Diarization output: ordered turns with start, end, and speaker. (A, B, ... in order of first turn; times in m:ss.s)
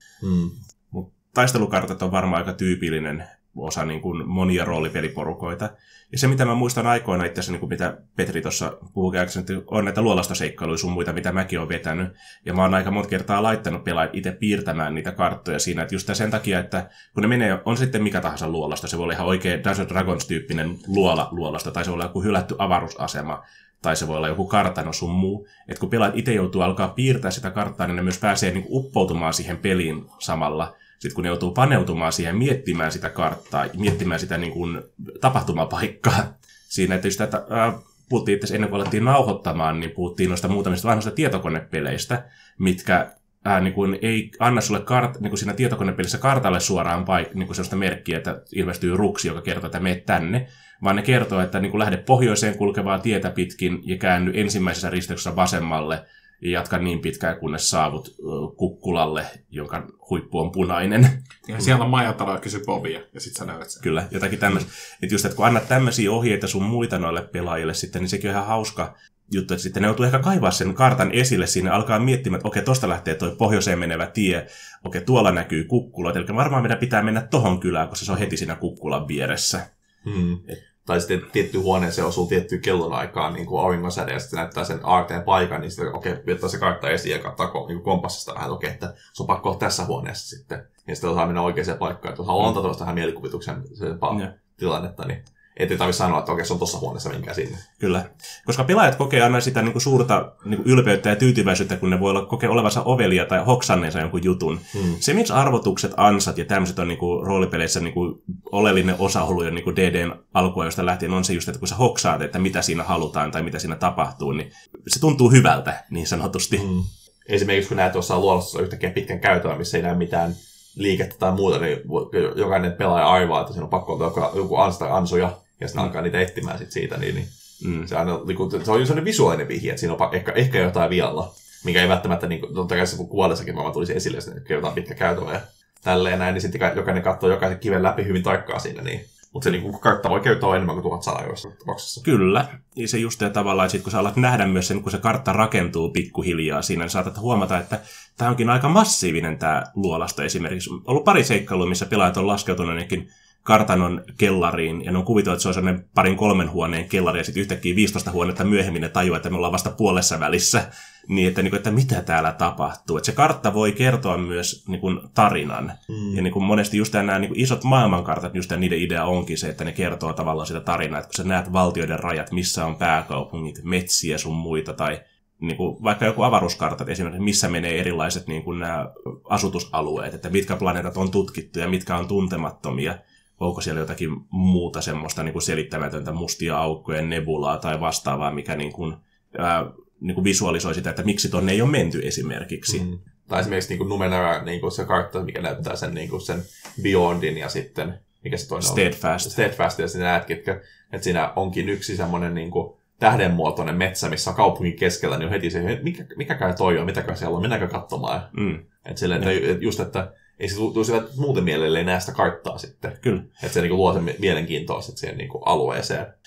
0:00.2-0:00.6 A
0:00.9-1:01.2 B
1:01.4-1:03.9 C
1:03.8-1:19.6 B
1:20.0-1:37.6 A
1:37.8-1:56.7 B
1:44.7-1:45.0 A
1:56.5-2:07.3 A
2:07.6-2:07.9 B
2:07.9-2:22.0 A
2:22.0-3:12.8 B
2:45.9-2:46.2 A
3:12.7-3:28.3 A
3:18.6-3:19.4 B
3:28.4-3:28.6 B
3:28.8-3:36.1 A